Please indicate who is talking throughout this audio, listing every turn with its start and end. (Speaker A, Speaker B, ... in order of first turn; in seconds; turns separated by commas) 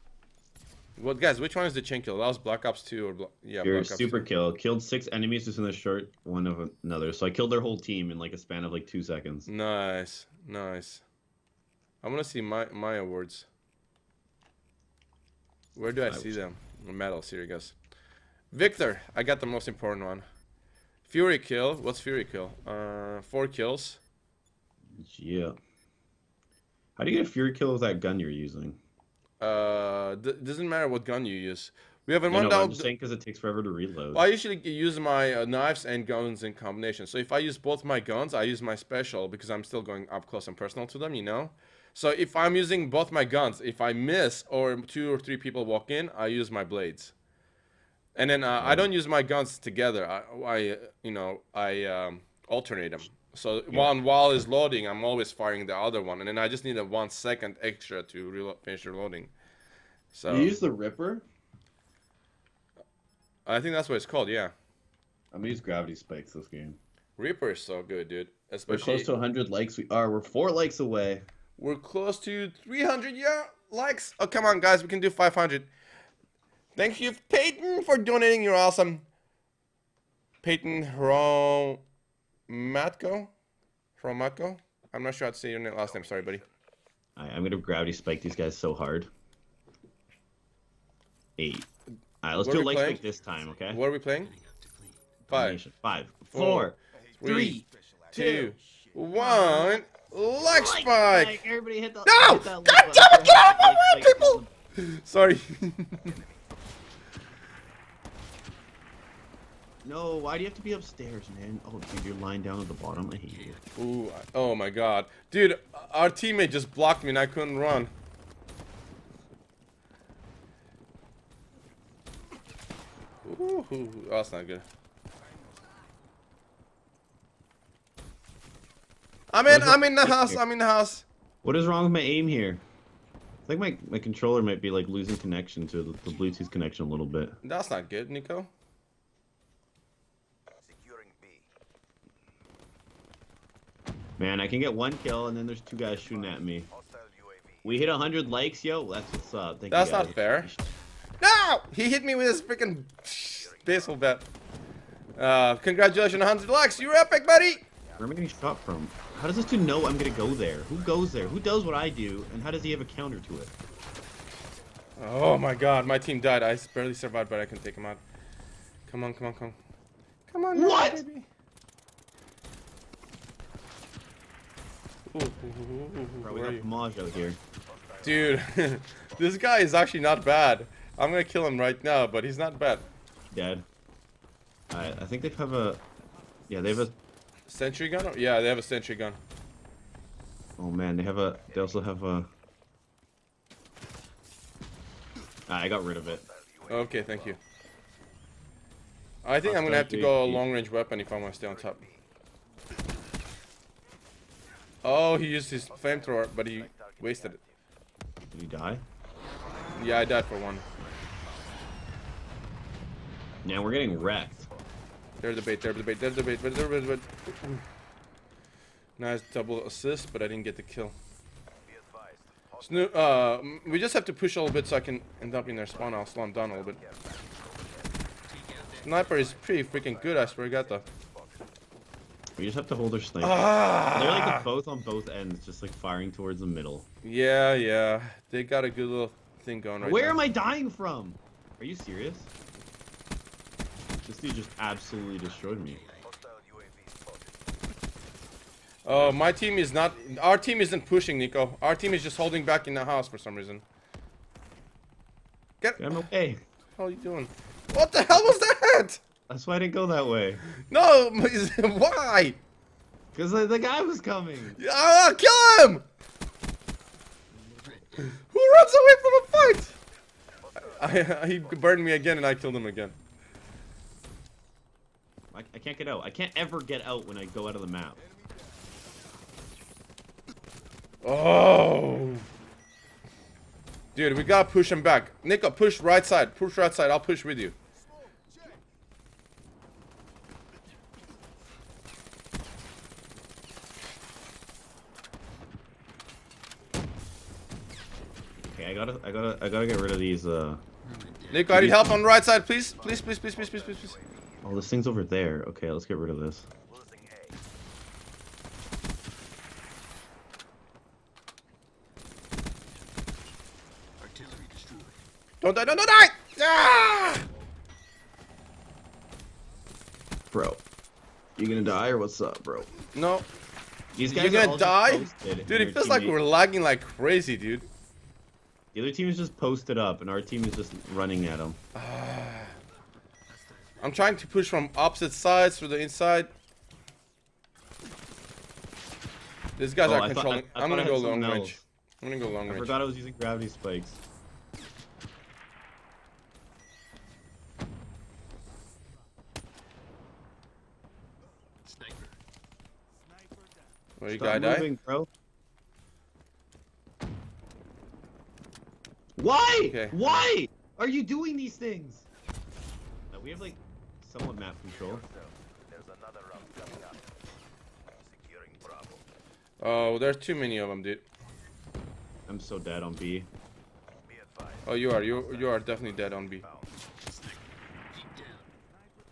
Speaker A: 1.0-4.2, Speaker B: 3.6-9.5, Speaker A: 9.5-11.0, Speaker A: 12.0-13.5, Speaker A: 15.7-17.7, Speaker B: 16.1-16.4, Speaker A: 18.5-20.2, Speaker A: 21.1-24.0, Speaker B: 24.9-25.6, Speaker B: 27.0-28.8, Speaker A: 29.4-32.9, Speaker B: 32.3-34.2, Speaker A: 34.1-47.1, Speaker A: 48.1-59.3, Speaker B: 48.6-48.9, Speaker A: 60.1-60.6, Speaker B: 60.3-61.2, Speaker A: 63.5-64.5, Speaker B: 65.3-66.8, Speaker A: 67.2-69.1, Speaker B: 68.7-71.2, Speaker A: 71.6-75.7, Speaker A: 76.8-79.0, Speaker A: 80.4-81.8, Speaker A: 82.5-83.3, Speaker A: 84.0-86.4, Speaker C: 85.8-86.5, Speaker B: 87.2-89.1, Speaker B: 91.4-91.7, Speaker B: 92.2-93.8, Speaker A: 92.4-93.0, Speaker A: 93.7-94.3, Speaker D: 94.2-95.1, Speaker B: 95.3-98.5, Speaker A: 95.3-95.6, Speaker A: 96.3-101.4, Speaker C: 97.0-98.5, Speaker B: 99.2-99.8, Speaker B: 100.4-104.5, Speaker A: 102.0-106.2, Speaker C: 106.0-106.5, Speaker B: 109.8-113.6, Speaker D: 113.2-113.7, Speaker A: 113.8-117.9, Speaker A: 123.2-124.7, Speaker A: 129.3-131.1, Speaker B: 129.5-130.4, Speaker B: 131.4-132.6, Speaker B: 133.4-137.4, Speaker A: 137.4-138.5, Speaker C: 140.6-141.5, Speaker B: 144.2-146.7, Speaker C: 146.1-147.9, Speaker B: 147.6-150.6, Speaker A: 149.7-150.5, Speaker A: 151.2-154.2, Speaker C: 153.3-154.1, Speaker A: 155.2-157.6, Speaker C: 155.8-158.6, Speaker B: 158.0-163.5, Speaker C: 160.2-161.2, Speaker A: 165.0-168.0, Speaker A: 168.9-169.6, Speaker A: 170.3-171.3, Speaker B: 170.5-171.0, Speaker A: 175.1-176.7, Speaker B: 176.2-177.4, Speaker C: 177.1-179.3, Speaker A: 178.0-182.8, Speaker B: 183.3-183.6, Speaker B: 184.7-185.8, Speaker B: 186.5-186.9, Speaker A: 187.5-189.2, Speaker B: 190.6-192.3, Speaker B: 195.5-196.2, Speaker C: 196.0-197.4, Speaker A: 196.7-197.4, Speaker A: 199.2-201.8, Speaker B: 199.4-200.4, Speaker C: 201.4-202.1, Speaker A: 204.8-207.4, Speaker C: 205.7-207.6, Speaker B: 208.3-208.8, Speaker C: 209.6-211.4, Speaker A: 209.7-210.6, Speaker B: 213.4-214.5, Speaker C: 213.4-214.6, Speaker A: 215.2-217.6, Speaker A: 219.0-220.9, Speaker C: 221.6-223.9, Speaker A: 222.6-226.8, Speaker C: 225.4-231.5, Speaker D: 228.3-229.4, Speaker A: 228.8-230.8, Speaker B: 232.4-236.9, Speaker A: 233.2-234.4, Speaker A: 237.0-240.2, Speaker B: 239.8-242.3, Speaker B: 244.1-245.8, Speaker D: 245.2-246.2, Speaker C: 246.0-247.6, Speaker A: 248.8-253.6, Speaker B: 248.9-249.2, Speaker A: 255.6-256.1, Speaker B: 255.8-256.4, Speaker A: 256.8-259.0, Speaker B: 259.3-260.4, Speaker A: 260.6-262.4, Speaker B: 263.1-264.6, Speaker A: 264.6-265.9, Speaker D: 267.5-268.0, Speaker A: 268.0-269.7, Speaker C: 270.4-271.9, Speaker A: 270.8-272.9, Speaker B: 275.3-278.0, Speaker A: 281.0-282.3, Speaker A: 283.9-287.6, Speaker B: 298.4-300.6, Speaker D: 300.8-301.7, Speaker A: 301.3-303.9, Speaker B: 301.5-302.0, Speaker C: 302.1-304.7, Speaker B: 304.4-306.5, Speaker C: 306.6-307.4, Speaker D: 314.0-315.0, Speaker A: 315.4-317.2, Speaker B: 320.3-320.6, Speaker B: 321.4-322.7, Speaker A: 322.9-323.3, Speaker B: 323.9-326.1, Speaker A: 324.0-327.7, Speaker B: 328.7-331.6, Speaker A: 331.7-332.6, Speaker D: 333.3-334.1, Speaker A: 333.8-336.3, Speaker A: 339.6-342.8, Speaker B: 339.8-341.6, Speaker B: 342.4-344.0, Speaker D: 351.6-352.2, Speaker A: 354.0-354.7, Speaker B: 354.1-355.1, Speaker B: 359.1-362.0, Speaker A: 359.6-360.3, Speaker B: 363.1-365.0, Speaker C: 364.6-367.1, Speaker C: 367.9-369.1, Speaker A: 369.6-371.0, Speaker B: 372.3-373.3, Speaker C: 374.0-376.7, Speaker A: 374.6-376.4, Speaker D: 377.0-378.5